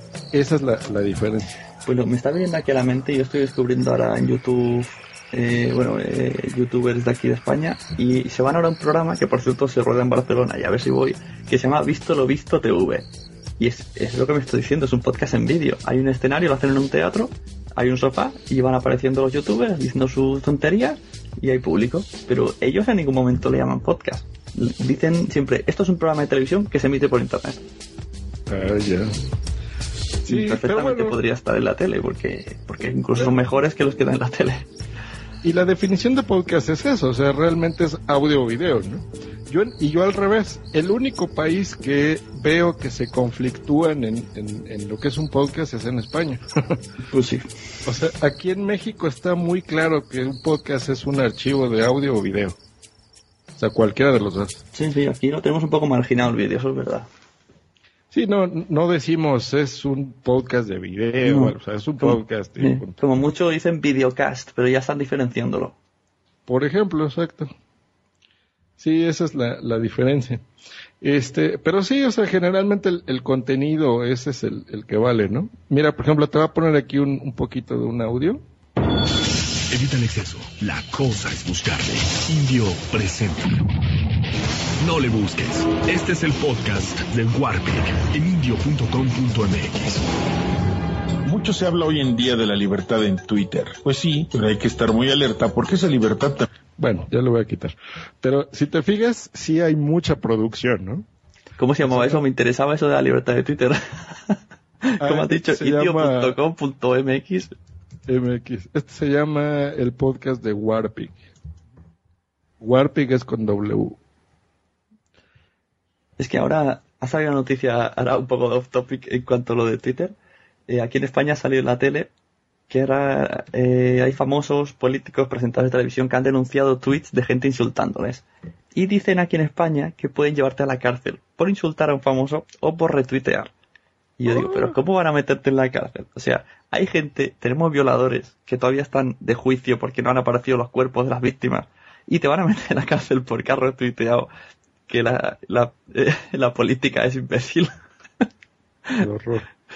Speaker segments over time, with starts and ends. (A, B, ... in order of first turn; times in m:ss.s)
0:00.3-0:01.6 A
0:01.8-0:13.1 B
0:13.6-0:27.6 B
0:28.5-0:29.2 A
0:30.2-0:31.2 A
0:30.3-0:34.6 B
0:35.4-0:46.8 A
0:47.1-0:47.5 B
0:47.8-0:52.6 A
0:53.6-0:54.6 A
0:54.7-0:57.1 B
0:58.1-1:03.0 A
1:01.2-1:05.8 B
1:06.5-1:07.5 A
1:08.8-1:10.4 A
1:11.0-1:18.4 A
1:19.7-1:23.7 C
1:24.8-1:30.0 C
1:31.3-1:33.1 D
1:32.3-1:34.8 C
1:33.8-1:36.4 D
1:36.8-1:41.1 A
1:41.6-1:47.5 B
1:41.8-1:42.2 A
1:45.0-1:46.4 A
1:48.1-1:51.3 A
1:52.6-1:54.0 A
1:56.2-2:00.1 B
2:00.7-2:02.1 B
2:02.7-2:13.5 B
2:14.2-2:24.3 B
2:14.2-2:14.8 A
2:24.9-2:27.7 B
2:29.0-2:29.5 A